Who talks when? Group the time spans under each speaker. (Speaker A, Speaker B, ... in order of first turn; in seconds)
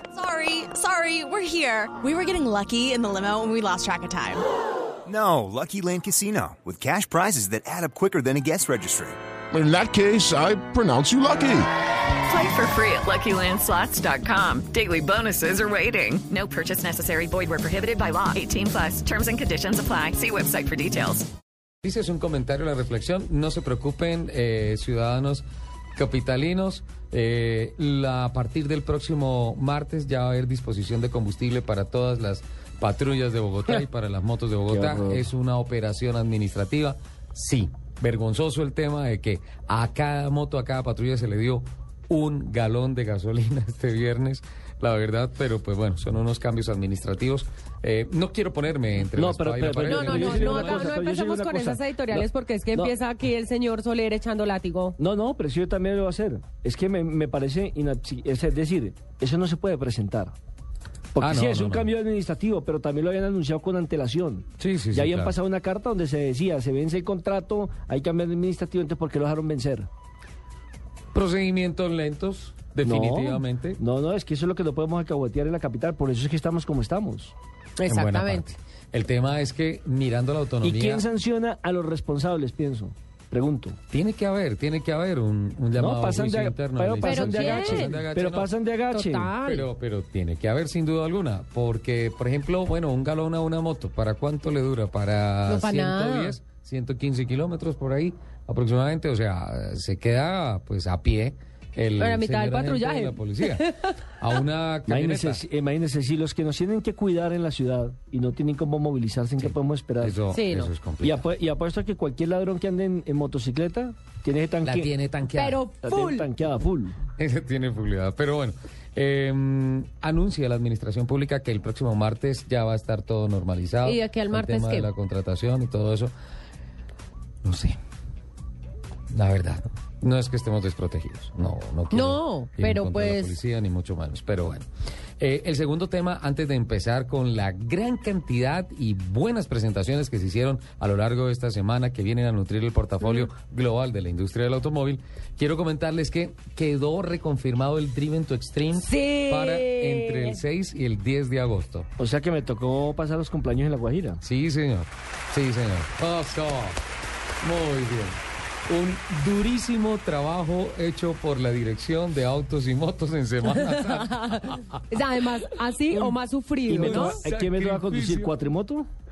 Speaker A: 0.1-4.4
Speaker B: 5.1-9.2
Speaker C: 9.5-11.7
Speaker D: 12.3-21.3
Speaker E: 21.8-51.0, 61.2-61.9, 64.6-65.4, 71.1-73.8, 77.8-81.0, 83.9-88.5, 89.4-105.4, 109.4-111.2, 114.6-115.6, 117.2-126.1, 127.4-127.8, 129.1-134.7, 135.2-151.9, 154.2-156.8, 157.4-164.8, 165.9-166.2, 166.8-168.3
Speaker F: 34.7-35.3, 49.1-53.0, 55.0-60.4, 61.1-69.9, 72.8-77.3, 80.6-83.8, 85.8-89.3, 104.9-110.2, 111.0-114.9, 115.8-117.0, 152.0-154.2, 166.7-168.9
Speaker G: 49.8-55.0, 77.8-78.5, 87.0-88.0, 88.9-89.7, 95.5-96.4, 102.0-103.9, 110.3-110.7, 115.3-116.3, 123.8-124.9, 131.9-133.4, 148.8-150.4, 163.5-164.4, 164.9-167.2